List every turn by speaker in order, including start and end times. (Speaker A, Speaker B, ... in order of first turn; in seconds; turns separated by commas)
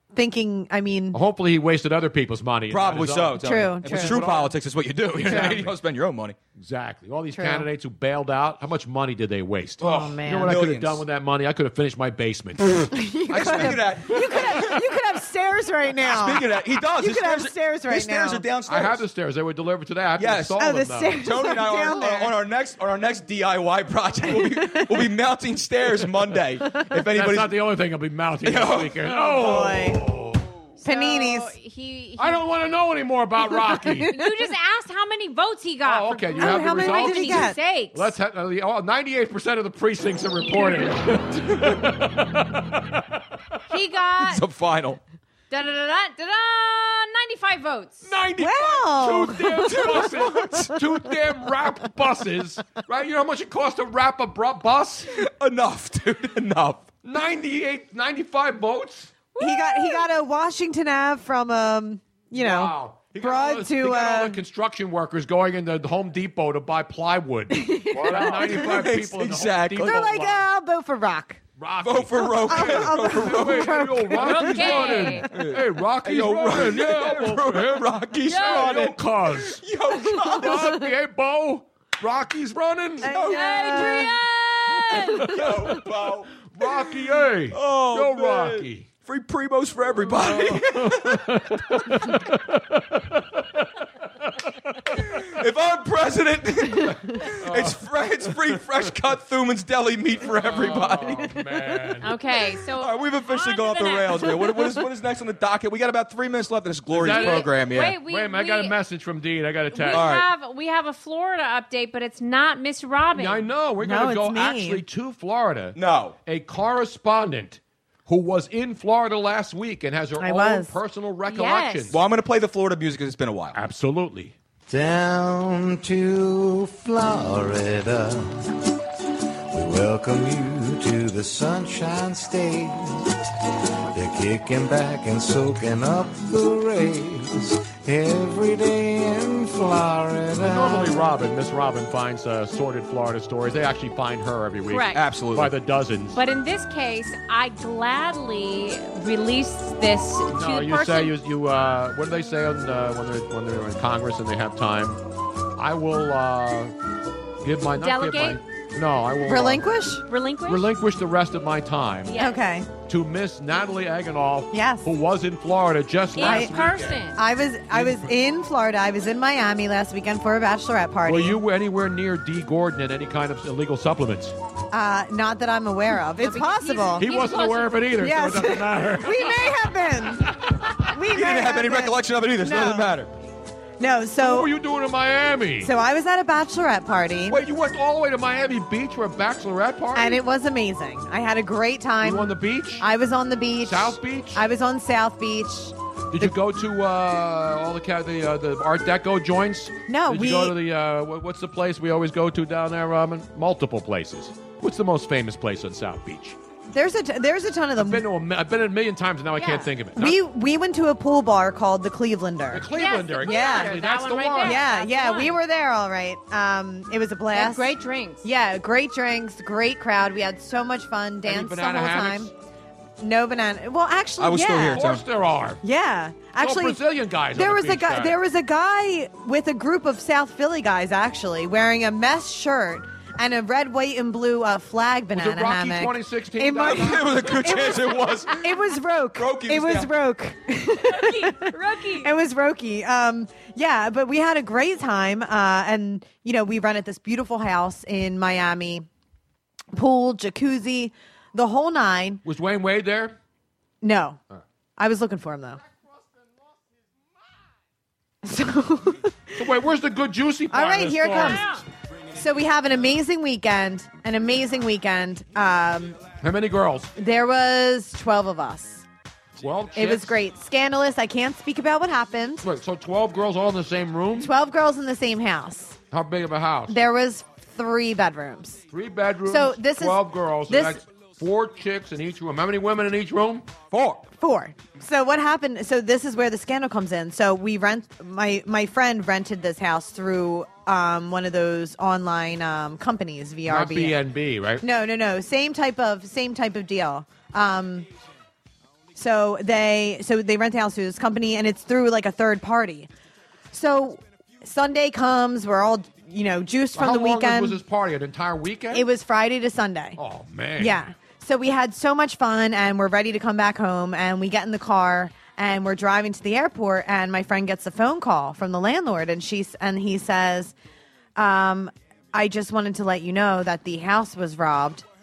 Speaker A: 0.1-1.2, Speaker B: 1.1-4.5, Speaker C: 2.7-6.4, Speaker A: 3.3-4.2, Speaker B: 5.2-5.7, Speaker B: 6.5-12.9, Speaker A: 7.3-7.7, Speaker A: 9.8-10.6, Speaker C: 9.8-11.0, Speaker A: 12.9-18.4, Speaker C: 13.3-14.8, Speaker B: 13.4-13.8, Speaker B: 14.3-14.7, Speaker C: 16.0-19.0, Speaker B: 18.6-21.2, Speaker C: 20.2-20.6, Speaker A: 20.6-22.4, Speaker C: 21.1-27.6, Speaker A: 24.2-25.1, Speaker B: 27.1-30.5, Speaker C: 28.4-30.0, Speaker A: 29.2-30.0, Speaker D: 30.8-32.4, Speaker A: 30.8-31.5, Speaker B: 32.2-34.1, Speaker A: 33.7-34.4, Speaker D: 34.1-38.1, Speaker B: 35.8-42.3, Speaker A: 36.4-37.6, Speaker D: 43.7-44.4, Speaker C: 44.2-45.0, Speaker D: 45.5-48.1, Speaker B: 48.0-55.1, Speaker A: 48.4-50.7, Speaker C: 50.0-50.6, Speaker C: 55.1-56.9, Speaker B: 57.0-59.1, Speaker D: 59.3-60.1, Speaker A: 59.4-64.4, Speaker B: 62.3-70.5, Speaker A: 67.5-68.6, Speaker C: 68.0-70.1, Speaker A: 69.8-71.4, Speaker B: 71.6-79.6, Speaker C: 71.8-80.8, Speaker A: 72.3-75.2, Speaker D: 74.4-75.3, Speaker D: 78.3-78.8, Speaker B: 80.2-83.2, Speaker C: 83.0-83.8, Speaker A: 83.0-84.2, Speaker D: 83.2-85.3, Speaker B: 85.2-85.6, Speaker C: 85.2-86.3, Speaker B: 86.5-88.9, Speaker C: 87.5-91.4, Speaker B: 90.0-93.6, Speaker C: 95.0-101.4, Speaker B: 97.2-97.8, Speaker B: 100.3-102.1, Speaker D: 102.0-104.6, Speaker C: 102.8-108.0, Speaker B: 106.9-110.1, Speaker D: 107.0-108.8, Speaker D: 109.7-113.5, Speaker C: 109.9-110.2, Speaker B: 113.1-122.0, Speaker A: 113.8-114.8, Speaker C: 115.7-116.2, Speaker A: 120.2-120.7, Speaker D: 121.2-122.0, Speaker C: 121.9-123.6, Speaker B: 123.5-124.3, Speaker E: 124.7-128.4, Speaker E: 129.5-133.0, Speaker E: 133.9-141.0, Speaker B: 140.3-146.2, Speaker D: 144.7-145.0, Speaker C: 144.9-145.5, Speaker D: 146.1-151.1, Speaker B: 150.3-155.0, Speaker B: 155.6-156.7, Speaker B: 157.4-159.7, Speaker D: 157.8-158.4, Speaker A: 159.2-160.0, Speaker D: 160.1-160.7, Speaker B: 160.4-162.2, Speaker D: 162.1-162.4, Speaker A: 162.2-162.7, Speaker B: 162.8-167.0, Speaker A: 164.5-164.9, Speaker D: 166.2-167.2, Speaker A: 166.2-166.6, Speaker A: 167.1-171.4, Speaker B: 167.7-168.1, Speaker B: 171.1-174.3, Speaker A: 174.7-177.1, Speaker D: 176.2-177.9, Speaker B: 177.0-179.5, Speaker A: 178.0-180.3, Speaker B: 180.2-180.7, Speaker A: 180.9-182.9, Speaker C: 181.1-183.1, Speaker A: 183.8-184.5, Speaker B: 184.2-185.7, Speaker A: 185.6-187.4, Speaker B: 187.3-190.2, Speaker A: 189.9-196.3, Speaker B: 192.0-192.8, Speaker B: 193.6-194.4, Speaker B: 196.1-206.4, Speaker A: 199.9-200.6, Speaker A: 206.7-208.1, Speaker B: 207.8-210.2, Speaker D: 209.4-209.7, Speaker A: 209.9-213.8, Speaker B: 212.5-214.7, Speaker D: 212.7-215.4, Speaker A: 214.4-222.3, Speaker D: 217.3-218.2, Speaker B: 221.2-222.3, Speaker A: 223.0-224.8, Speaker C: 224.2-225.0, Speaker B: 224.6-225.6, Speaker A: 225.6-226.8, Speaker B: 226.4-228.2, Speaker A: 227.3-248.9, Speaker B: 235.1-238.0, Speaker C: 236.6-238.4, Speaker C: 239.2-239.9, Speaker D: 240.8-242.1, Speaker A: 249.7-252.2, Speaker B: 252.2-253.2, Speaker A: 253.8-254.2, Speaker A: 254.8-255.6, Speaker A: 258.2-259.4, Speaker B: 259.4-261.4, Speaker A: 260.5-261.6, Speaker D: 261.1-261.6, Speaker A: 262.1-266.0, Speaker B: 266.2-266.9, Speaker A: 266.9-268.8, Speaker B: 269.4-270.2, Speaker A: 269.7-272.5, Speaker B: 272.4-274.3, Speaker A: 274.2-275.8, Speaker B: 275.9-276.8, Speaker A: 276.7-278.6, Speaker B: 278.7-283.5, Speaker A: 279.3-280.8, Speaker C: 283.7-284.1, Speaker A: 284.2-294.0, Speaker B: 293.4-294.6, Speaker A: 294.6-297.9, Speaker A: 298.9-302.9, Speaker A: 303.5-307.6, Speaker B: 306.7-308.9, Speaker A: 308.7-310.0, Speaker B: 310.0-310.9, Speaker A: 310.6-320.5, Speaker A: 321.1-324.8